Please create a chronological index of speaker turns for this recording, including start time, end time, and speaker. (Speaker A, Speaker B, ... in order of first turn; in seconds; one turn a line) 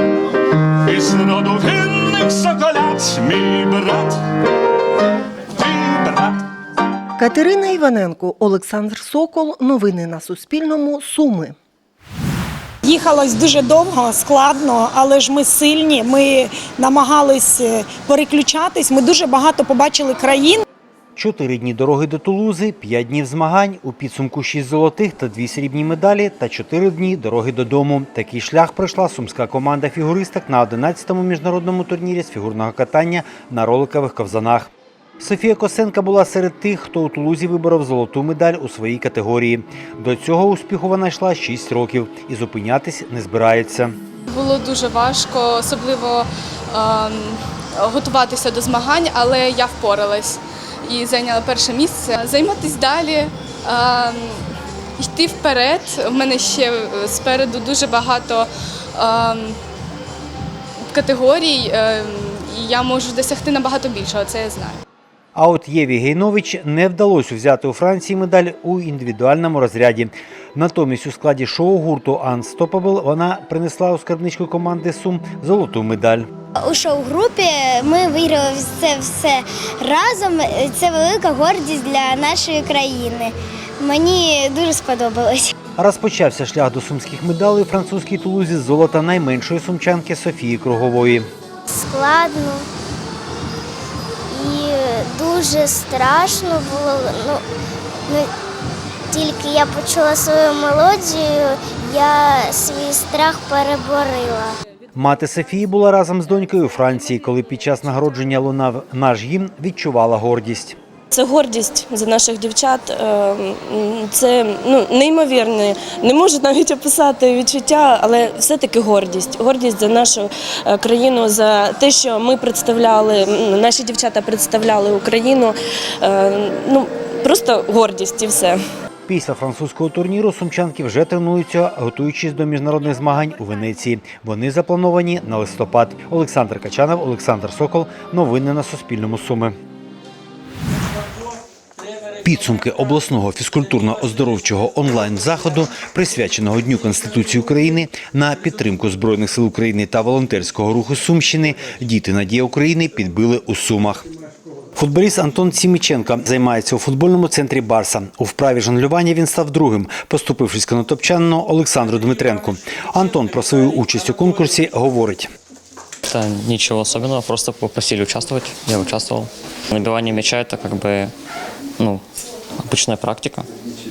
Speaker A: 0.8-4.2
Speaker A: 5.5-6.4
Speaker B: 7.2-11.5
Speaker C: 12.8-20.6
Speaker D: 21.1-44.0
Speaker E: 44.3-54.4
Speaker E: 55.0-59.6
Speaker E: 60.9-64.8
Speaker D: 65.3-76.3
Speaker F: 76.6-85.5
Speaker D: 85.8-91.3
Speaker F: 91.7-92.7
Speaker F: 94.3-97.4
Speaker F: 99.1-104.5
Speaker D: 104.9-110.8
Speaker G: 111.1-128.6
Speaker D: 129.1-139.6
Speaker D: 142.2-154.1
Speaker D: 154.8-165.3
Speaker H: 166.0-171.1
Speaker H: 171.8-172.0
Speaker H: 172.6-173.5